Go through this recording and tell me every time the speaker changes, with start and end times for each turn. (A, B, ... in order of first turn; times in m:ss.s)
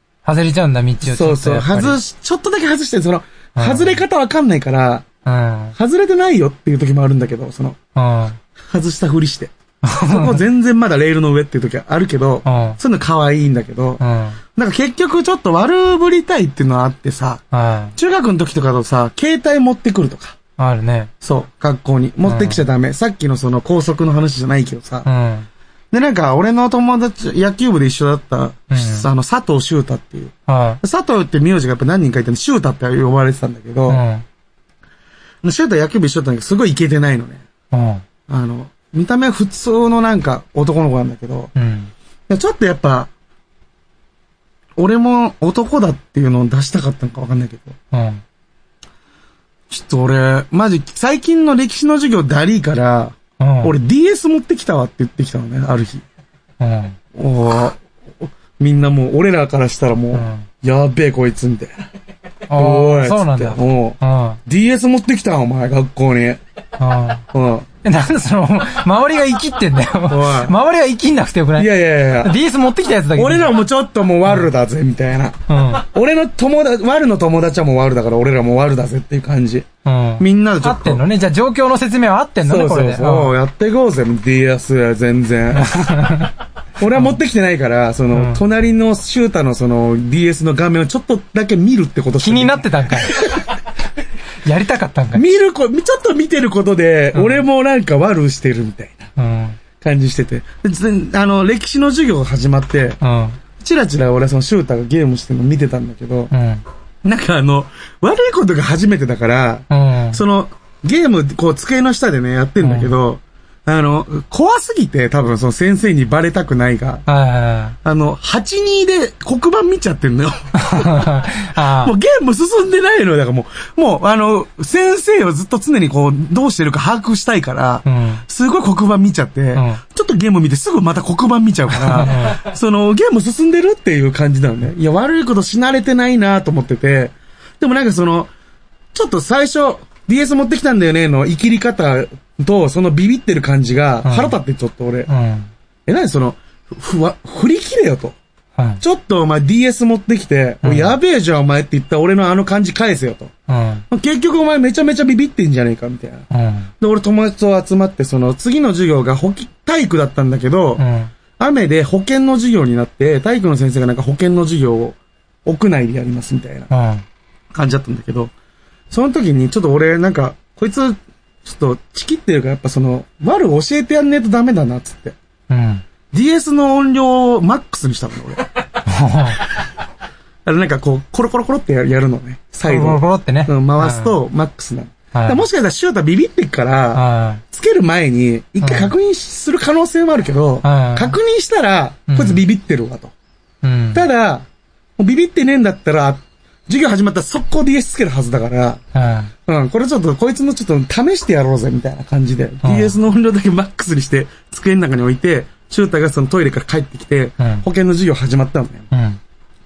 0:00.2-0:02.0 A
0:01.0-0:05.1 B
0:03.6-0:04.0 A
0:05.2-0:05.8 A
0:05.8-0:07.8 B
0:08.0-0:08.4 A
0:08.7-0:09.5 B
0:09.8-0:10.4 A
0:10.0-0:14.0 B
0:12.4-0:12.8 A
0:14.0-0:14.4 A
0:14.5-0:17.4 B
0:17.5-0:18.0 A
0:18.0-0:20.4 B
0:20.6-0:21.1 A
0:21.2-0:25.1 B
0:22.3-0:22.6 A
0:25.0-0:25.5 A
0:25.9-0:34.0 B
0:28.7-0:29.1 A
0:30.5-0:30.8 A
0:33.9-0:34.2 A
0:35.4-0:37.4 B
0:37.7-0:38.0 A
0:38.3-0:41.5 B
0:41.6-0:41.9 A
0:42.3-0:43.1 B
0:44.8-0:47.8 B
0:47.9-0:48.2 A
0:49.7-0:56.0 B
0:53.4-0:53.7 A
0:56.6-0:57.0 A
0:57.2-1:01.8 B
1:00.1-1:00.5 A
1:02.5-1:04.4 A
1:02.5-1:06.4 B
1:06.8-1:07.2 A
1:07.3-1:07.7 B
1:07.8-1:13.6 A
1:10.1-1:10.6 B
1:11.6-1:12.4 B
1:13.2-1:19.7 B
1:15.5-1:15.8 A
1:19.8-1:23.3 A
1:20.2-1:21.0 B
1:22.4-1:26.3 B
1:25.6-1:26.3 A
1:26.8-1:33.5 B
1:28.1-1:28.4 A
1:32.2-1:33.4 A
1:34.4-1:35.2 A
1:35.1-1:39.1 B
1:37.1-1:37.4 A
1:39.2-1:39.6 A
1:39.8-1:43.0 B
1:43.0-1:43.4 A
1:43.6-1:46.3 B
1:46.3-1:46.6 A
1:47.0-1:57.0 B
1:49.7-1:50.2 A
1:52.6-1:52.9 A
1:57.1-1:57.8 A
1:57.8-2:18.3 B
2:00.6-2:02.0 A
2:07.8-2:08.2 A
2:09.6-2:09.8 A
2:11.7-2:12.4 A
2:18.9-2:25.1 B
2:24.0-2:24.4 A
2:25.1-2:25.5 A
2:25.9-2:28.2 B
2:28.6-2:28.8 A
2:28.8-2:33.3 B
2:30.6-2:31.0 A
2:33.5-2:33.8 A
2:33.9-2:36.3 B
2:36.3-2:36.7 A
2:36.8-2:40.8 B
2:40.8-2:41.1 A
2:41.4-2:46.7 B
2:46.7-2:47.0 A
2:47.5-2:48.3 B
2:48.9-2:55.2 B
2:55.5-2:55.8 A
2:56.1-2:58.5 B
2:58.9-2:59.4 A
3:00.4-3:13.1 B
3:02.7-3:04.2 A
3:05.1-3:05.4 A
3:06.9-3:07.4 A
3:08.6-3:08.9 A
3:10.6-3:11.2 A
3:12.1-3:12.4 A
3:13.6-3:14.1 A
3:13.9-3:14.5 B
3:15.0-3:18.8 B
3:18.9-3:19.3 A
3:19.5-3:28.9 B
3:22.6-3:22.9 A
3:27.4-3:27.6 A
3:28.9-3:29.2 A